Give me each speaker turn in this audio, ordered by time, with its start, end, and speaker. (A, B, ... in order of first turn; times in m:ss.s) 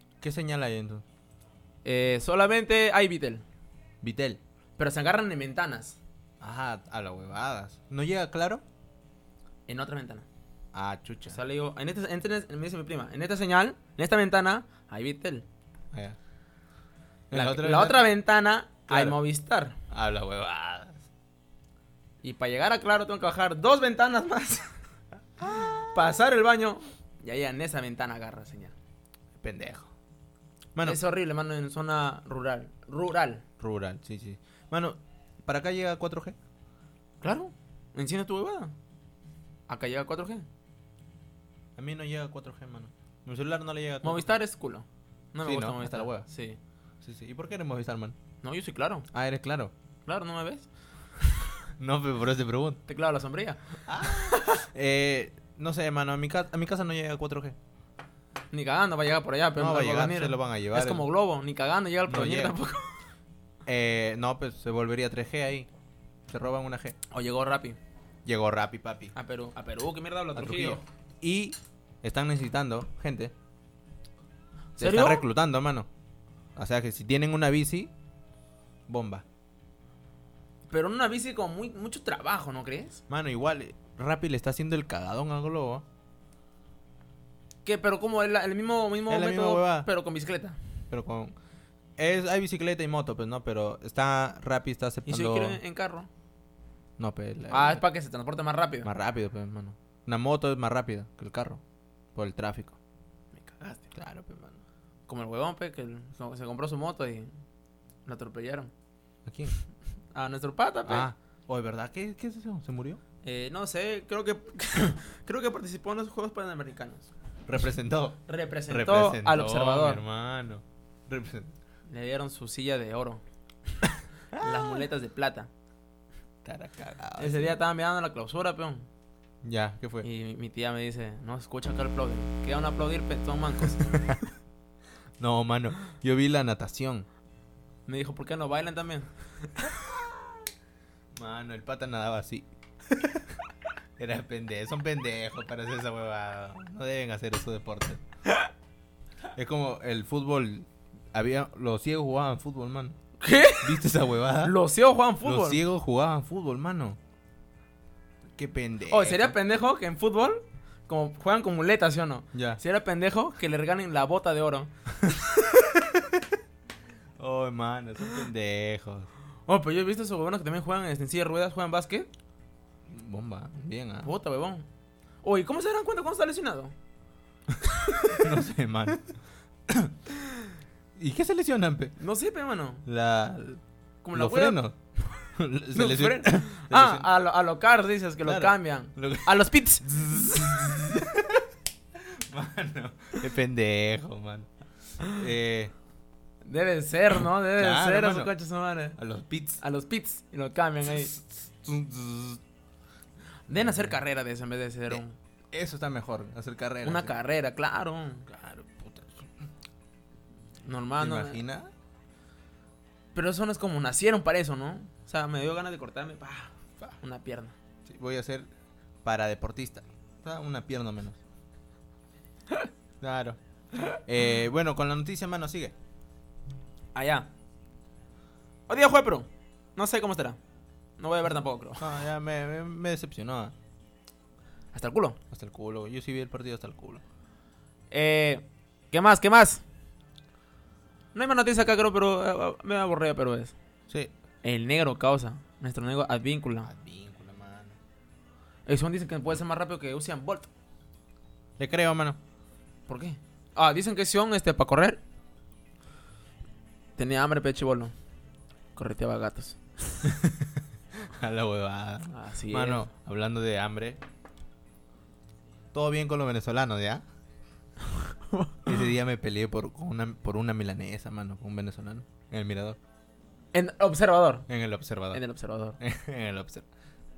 0:00.2-0:01.0 A
0:01.8-0:03.4 B
0:04.0-0:04.4 A
0:04.8-0:06.0 B
0:06.4-0:08.6 A
0:09.7-0:10.3 B
0:10.7-0:11.4 A
0:11.3-0:15.5 B
0:17.3-0:18.1 A
0:17.3-0:19.8 B
0:18.9-0:19.2 A
0:19.9-0:21.0 A
0:22.2-0:24.7 B
0:25.4-0:25.9 A
0:25.6-0:28.7 B
0:29.4-0:29.9 A
0:30.8-0:31.0 A
0:30.8-0:33.4 B
0:33.6-0:36.4 A
0:37.2-0:38.7 B
0:39.7-0:40.5 B
0:41.8-0:44.3 A
0:44.0-0:46.6 B
0:45.4-0:46.3 A
0:47.0-0:48.2 A
0:48.4-0:49.1 B
0:49.1-0:49.7 A
0:50.1-0:50.7 B
0:51.8-0:52.8 A
0:52.9-0:54.7 B
0:53.9-0:57.6 A
0:58.5-1:02.9 B
0:59.6-1:01.1 A
1:02.1-1:02.6 A
1:03.7-1:05.7 A
1:06.3-1:07.0 A
1:07.1-1:07.8 B
1:08.2-1:09.1 A
1:09.2-1:10.8 B
1:10.4-1:13.3 A
1:14.8-1:15.2 B
1:14.8-1:15.9 A
1:16.6-1:17.9 A
1:18.9-1:19.2 A
1:20.7-1:23.0 B
1:23.1-1:25.8 A
1:27.6-1:30.6 B
1:29.1-1:29.9 A
1:30.9-1:31.3 A
1:32.0-1:35.6 A
1:35.1-1:36.1 B
1:37.0-1:37.8 A
1:37.5-1:38.9 B
1:38.8-1:41.6 A
1:42.2-1:42.8 A
1:43.3-1:43.9 B
1:44.0-1:44.6 A
1:45.1-1:47.3 B
1:48.1-1:48.7 B
1:49.2-1:49.6 A
1:50.1-1:51.1 B
1:50.9-1:53.0 A
1:53.2-1:57.1 B
1:57.5-2:01.5 A
1:58.3-2:00.0 B
2:01.9-2:03.2 B
2:04.3-2:05.5 B
2:04.4-2:04.8 A
2:06.4-2:07.6 A
2:07.2-2:08.9 B
2:09.4-2:10.1 A
2:10.0-2:13.9 B
2:13.8-2:14.2 A
2:15.2-2:17.1 A
2:17.9-2:19.7 B
2:21.2-2:23.4 A
2:24.0-2:28.0 A
2:29.4-2:33.0 A
2:33.2-2:33.8 B
2:33.6-2:34.6 A
2:34.4-2:35.6 B
2:35.2-2:37.0 A
2:38.4-2:39.4 A
2:38.9-2:44.7 B
2:42.3-2:42.6 A
2:45.1-2:46.2 A
2:47.2-2:49.1 A
2:49.5-2:52.1 B
2:52.9-2:54.1 A
2:54.0-2:54.7 B
2:55.2-2:56.7 B
2:57.9-2:58.2 B
2:58.0-2:59.0 A
2:59.7-3:00.0 A
3:01.0-3:02.0 A
3:02.0-3:02.8 B
3:02.9-3:03.6 A
3:04.0-3:04.6 B
3:04.1-3:04.8 A
3:05.4-3:07.1 A
3:05.7-3:09.9 B
3:08.2-3:14.5 A
3:15.0-3:15.7 A
3:16.4-3:19.0 B
3:17.5-3:18.3 A
3:19.0-3:19.6 A
3:19.6-3:21.1 B
3:20.9-3:22.4 A
3:23.5-3:25.2 B
3:23.5-3:24.0 A
3:24.9-3:27.2 A
3:26.8-3:28.3 B
3:28.3-3:29.3 A
3:30.6-3:31.4 B
3:31.0-3:31.7 A
3:33.1-3:37.6 B
3:37.9-3:38.5 A
3:39.0-3:41.2 A
3:43.0-3:45.7 A
3:47.0-3:47.3 B
3:48.7-3:50.4 B
3:51.0-3:51.9 B
3:51.8-3:53.5 A
3:54.7-3:55.2 B
3:55.3-3:57.0 A
3:57.9-3:59.6 B
4:01.1-4:03.6 B
4:04.4-4:06.7 B
4:06.6-4:07.8 A
4:08.7-4:10.5 B
4:11.6-4:12.2 A
4:12.9-4:15.0 B
4:17.0-4:17.9 B
4:18.8-4:19.6 B
4:20.0-4:24.0 A
4:22.1-4:22.9 B
4:25.7-4:27.0 A
4:28.7-4:32.8 A
4:33.5-4:34.5 B
4:34.5-4:35.2 A
4:35.1-4:35.8 B
4:35.8-4:36.7 A